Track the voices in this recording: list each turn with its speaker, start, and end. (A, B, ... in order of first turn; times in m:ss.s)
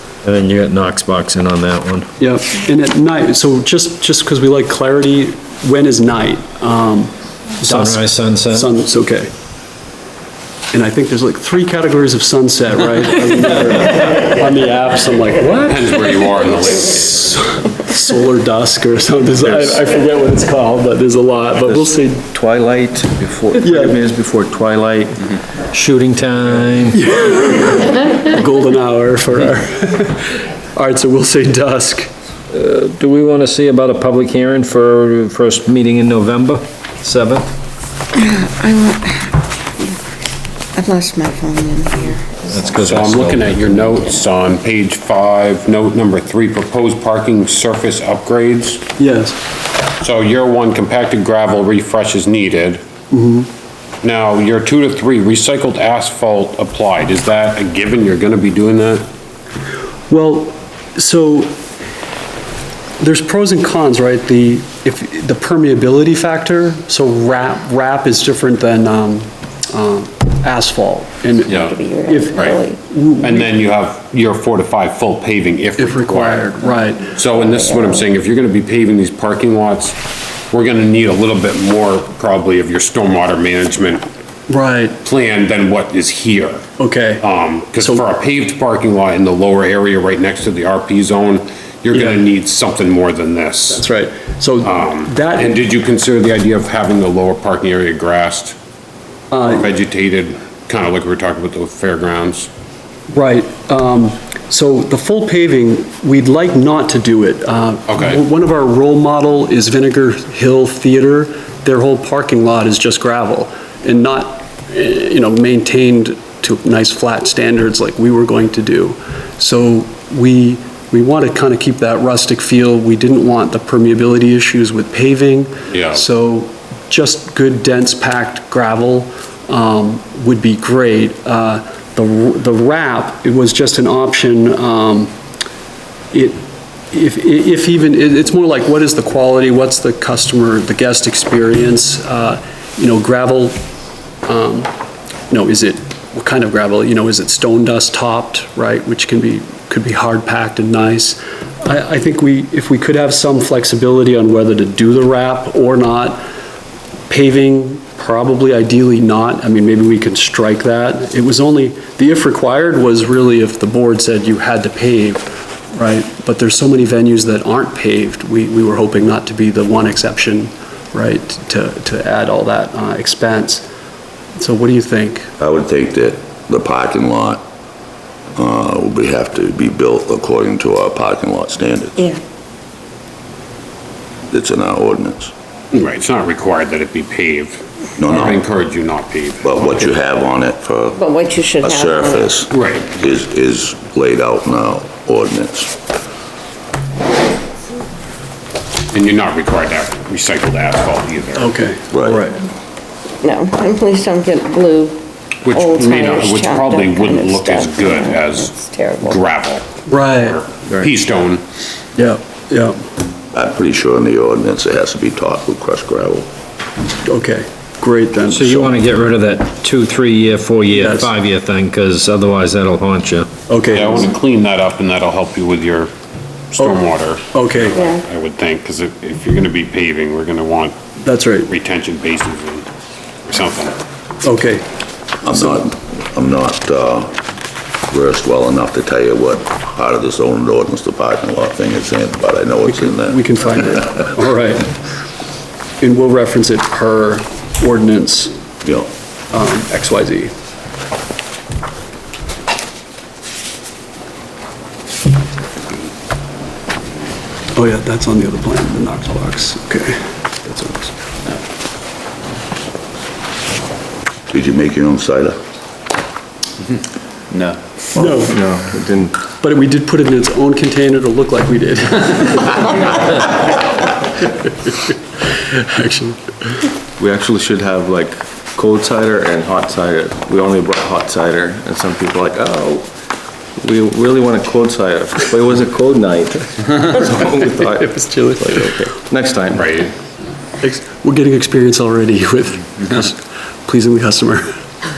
0:00.2-0:02.0 A
0:02.2-0:09.3 B
0:07.6-0:08.7 A
0:10.7-0:16.1 B
0:15.6-0:17.4 C
0:17.0-0:22.2 B
0:21.6-0:25.2 D
0:23.6-0:24.0 B
0:25.7-0:27.0 A
0:26.9-0:32.1 B
0:32.5-0:37.4 A
0:38.1-0:39.4 E
0:40.8-0:42.4 E
0:42.5-0:43.5 A
0:42.7-0:48.8 C
0:49.0-0:49.4 B
0:50.0-0:52.8 C
0:53.1-0:53.5 B
0:54.0-0:59.0 C
1:00.1-1:01.6 B
1:03.0-1:13.5 B
1:11.5-1:12.8 E
1:11.5-1:11.7 C
1:13.2-1:16.5 C
1:15.8-1:17.2 B
1:17.1-1:20.0 C
1:17.5-1:17.9 E
1:20.5-1:24.0 C
1:24.5-1:25.0 B
1:25.0-1:26.6 C
1:26.8-1:27.2 B
1:27.2-1:33.8 C
1:27.8-1:28.0 B
1:31.9-1:32.2 B
1:33.7-1:35.6 B
1:34.6-1:38.5 C
1:39.3-1:39.7 B
1:39.4-1:42.5 C
1:43.1-2:15.1 B
1:47.9-1:48.2 C
2:05.7-2:06.0 C
2:16.1-2:23.6 B
2:24.2-2:24.7 B
2:25.3-2:36.2 B
2:37.1-2:53.6 B
2:54.3-2:55.3 B
2:55.4-2:57.4 F
2:58.4-3:02.1 F
3:04.3-3:05.3 F
3:05.7-3:09.9 C
3:08.0-3:08.4 F
3:09.4-3:11.0 F
3:11.0-3:12.3 E
3:11.6-3:15.7 F
3:12.5-3:13.0 C
3:18.9-3:21.5 C
3:21.4-3:22.4 B
3:21.9-3:22.2 F
3:23.2-3:25.0 E
3:25.4-3:31.4 C
3:25.5-3:29.2 E
3:29.9-3:30.4 B
3:32.0-3:32.8 B
3:33.3-3:36.3 F
3:37.0-3:38.8 B
3:38.3-3:43.3 A
3:40.7-3:41.1 B
3:43.5-3:44.1 B
3:43.7-3:45.9 C
3:46.5-3:50.7 C
3:47.3-3:47.8 B
3:47.7-3:48.0 E
3:51.0-3:51.5 B
3:51.5-3:52.7 C
3:53.3-3:53.8 C
3:54.2-3:54.6 B
3:55.2-3:57.2 F
3:57.9-4:03.2 F
4:02.6-4:04.7 B
4:05.8-4:08.3 B
4:08.6-4:08.9 F
4:09.3-4:10.3 B
4:17.5-4:21.0 B
4:24.3-4:25.4 F
4:27.9-4:28.4 B
4:28.0-4:29.1 D
4:29.4-4:33.5 B
4:34.7-4:36.5 B
4:37.0-4:42.9 D
4:43.6-4:49.8 D
4:47.6-4:48.9 B
4:49.6-4:49.9 C
4:50.6-4:54.6 B